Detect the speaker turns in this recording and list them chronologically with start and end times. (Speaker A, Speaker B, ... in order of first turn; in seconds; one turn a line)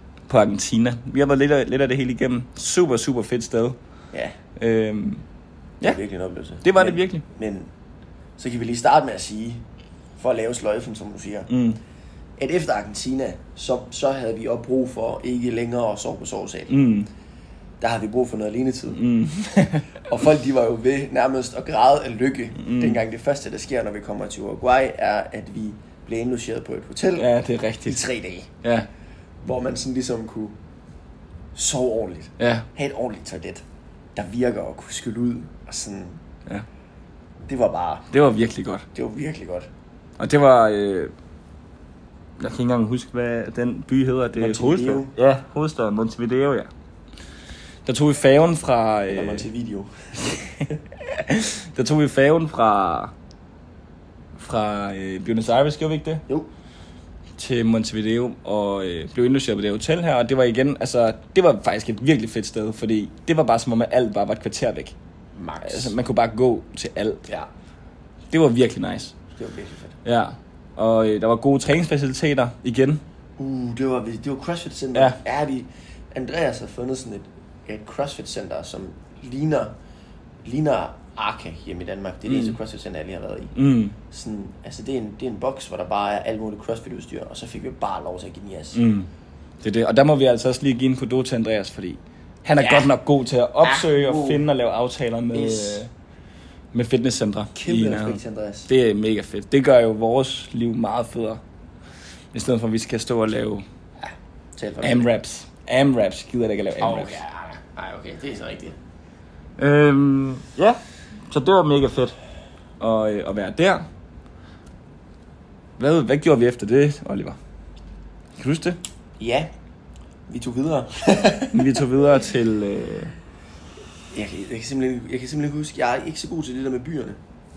Speaker A: 0.3-3.8
Speaker A: 4.5-5.2
Speaker B: 5.8-7.7
Speaker A: 6.6-7.2
Speaker B: 8.4-9.6
Speaker B: 10.2-11.5
Speaker A: 11.5-11.8
Speaker B: 12.4-16.7
Speaker A: 16.7-17.1
Speaker B: 17.8-19.0
Speaker A: 18.9-20.0
Speaker B: 20.1-27.3
Speaker A: 22.6-23.0
Speaker A: 27.1-28.0
Speaker B: 27.8-28.5
Speaker B: 29.4-30.6
Speaker B: 31.5-33.6
Speaker A: 32.4-32.6
Speaker B: 34.1-36.2
Speaker B: 37.5-38.1
Speaker A: 38.1-38.8
Speaker B: 38.9-39.7
Speaker A: 40.2-41.1
Speaker A: 42.4-46.7
Speaker B: 44.3-45.1
Speaker A: 47.9-49.5
Speaker B: 49.1-50.1
Speaker A: 50.3-53.1
Speaker A: 54.4-56.2
Speaker A: 57.4-64.9
Speaker B: 65.3-65.9
Speaker A: 65.6-67.2
Speaker A: 68.3-69.1
Speaker B: 69.3-70.0
Speaker A: 70.0-73.0
Speaker B: 73.4-79.8
Speaker B: 80.4-83.5
Speaker A: 82.3-82.6
Speaker A: 83.5-84.0
Speaker B: 84.1-88.8
Speaker A: 88.7-89.1
Speaker A: 89.6-95.9
Speaker B: 92.6-92.9
Speaker B: 93.6-94.4
Speaker B: 95.3-95.8
Speaker A: 96.7-101.4
Speaker B: 97.5-98.7
Speaker A: 102.3-103.6
Speaker B: 104.0-105.1
Speaker A: 104.8-107.2
Speaker B: 106.8-108.8
Speaker A: 109.6-110.8
Speaker A: 111.3-112.2
Speaker A: 112.8-113.8
Speaker A: 115.8-117.4
Speaker A: 118.4-118.8
Speaker B: 119.2-119.5
Speaker B: 120.3-121.8
Speaker A: 121.5-123.1
Speaker B: 124.1-127.2